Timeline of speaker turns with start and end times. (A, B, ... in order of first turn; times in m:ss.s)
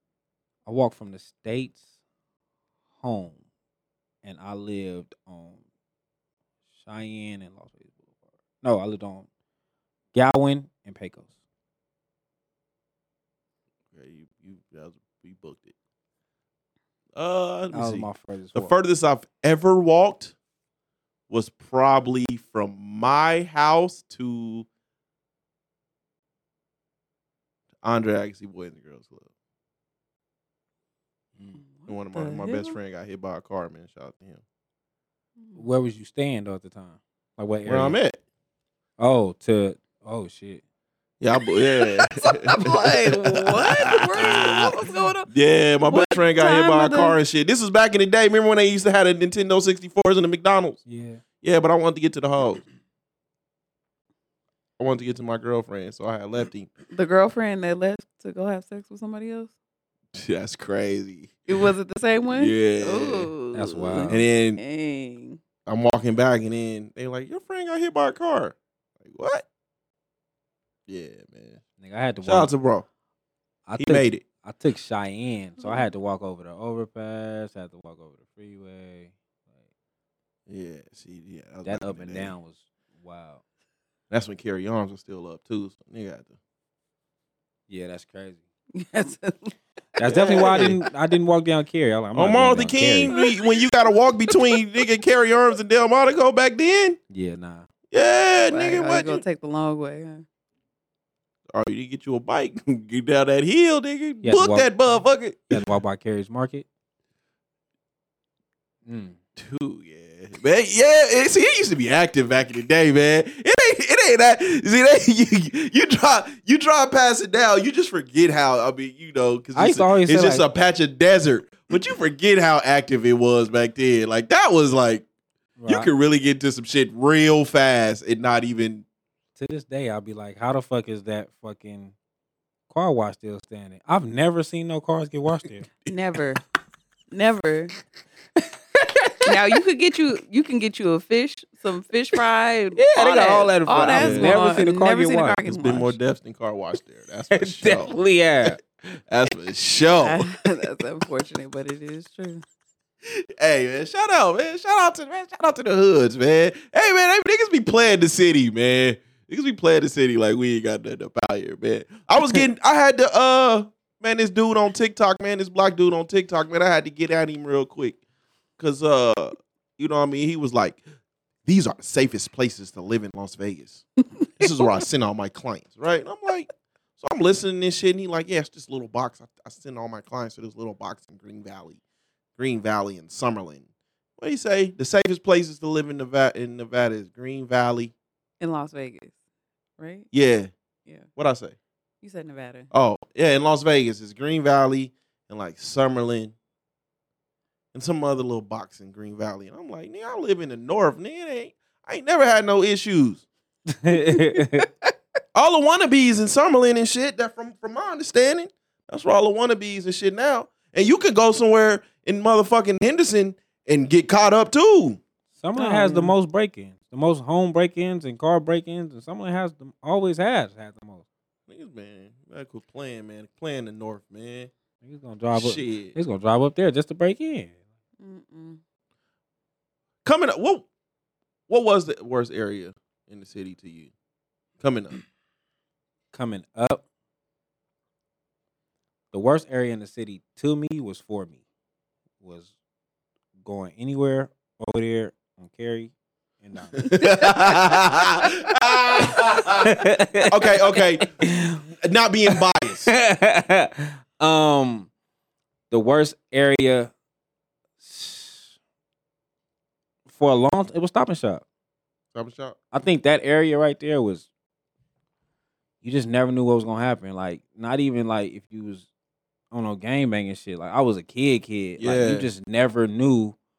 0:00.7-0:01.8 A
0:03.0-0:03.4 A
0:04.2-0:05.6 A
0:06.8-0:08.1 A
0:08.6-0:09.3 A
0:10.1-0:11.3 A
0:13.9-0:15.7 B
0:17.2-0:20.4 B
0:17.7-0:18.7 A
0:21.3-0:24.7 B
0:27.8-0:29.3 B
0:31.6-0:32.8 C
0:31.9-0:34.4 B
0:35.4-0:35.6 C
0:35.6-0:38.0 A
0:37.7-0:38.2 B
0:39.0-0:40.6 A
0:41.2-0:44.7 B
0:42.0-0:45.3 C
0:45.3-0:50.8 B
0:45.9-0:47.2 C
0:50.9-0:51.2 A
0:51.4-0:52.6 B
0:54.8-0:56.7 B
0:56.9-0:59.5 C
1:00.2-1:01.4 B
1:01.5-1:05.4 C
1:02.3-1:03.3 B
1:03.5-1:04.2 A
1:04.1-1:04.6 B
1:05.7-1:09.4 B
1:10.9-1:11.6 B
1:11.8-1:12.5 A
1:12.2-1:12.9 B
1:13.7-1:19.1 A
1:13.8-1:14.2 B
1:15.6-1:15.9 C
1:20.5-1:22.4 B
1:21.6-1:23.4 A
1:24.1-1:26.3 B
1:27.7-1:28.4 A
1:28.7-1:30.8 C
1:30.0-1:33.2 A
1:30.1-1:30.8 B
1:32.2-1:37.0 B
1:33.1-1:33.4 C
1:37.1-1:37.7 A
1:37.9-1:39.2 B
1:38.5-1:40.2 C
1:41.5-1:45.6 B
1:44.2-1:44.7 A
1:45.5-1:46.7 A
1:48.9-1:49.2 A
1:49.4-2:05.0 B
1:59.6-2:00.4 A
2:05.6-2:05.9 A
2:05.7-2:08.8 B
2:09.4-2:11.9 A
2:12.7-2:15.7 A
2:15.9-2:16.4 C
2:17.1-2:17.8 C
2:18.4-2:19.4 A
2:19.2-2:26.0 C
2:22.8-2:25.4 A
2:24.0-2:24.4 B
2:25.5-2:30.3 B
2:27.3-2:28.6 A
2:30.0-2:32.4 C
2:33.1-2:48.0 B
2:48.6-2:50.8 B
2:51.5-2:53.8 B
2:54.4-3:01.8 B
3:02.4-3:03.6 B
3:04.2-3:07.9 B
3:08.4-3:09.1 C
3:09.8-3:10.1 C
3:10.1-3:10.5 B
3:11.2-3:11.6 B
3:12.0-3:12.7 C
3:12.7-3:16.3 B
3:17.7-3:23.3 B
3:23.7-3:24.7 A
3:23.9-3:24.9 C
3:25.4-3:35.0 B
3:35.4-3:41.0 A
3:35.6-3:36.2 C
3:41.5-3:44.5 B
3:44.8-3:47.5 A
3:45.3-3:46.0 B
3:48.0-3:48.6 C
3:50.0-3:50.7 B
3:51.5-3:53.9 B
3:54.6-3:55.0 B
3:56.1-3:56.8 A
3:59.1-4:01.4 A
4:02.2-4:02.5 A
4:03.4-4:07.7 A
4:06.8-4:09.8 B
4:09.6-4:10.5 A
4:10.3-4:11.1 B
4:11.0-4:11.6 A
4:11.8-4:12.9 B
4:12.3-4:14.9 A
4:15.7-4:16.9 A
4:17.8-4:18.5 A
4:20.1-4:21.4 A
4:22.1-4:22.6 B
4:22.7-4:24.3 A
4:25.8-4:28.9 A
4:29.5-4:33.4 A
4:31.8-4:32.3 B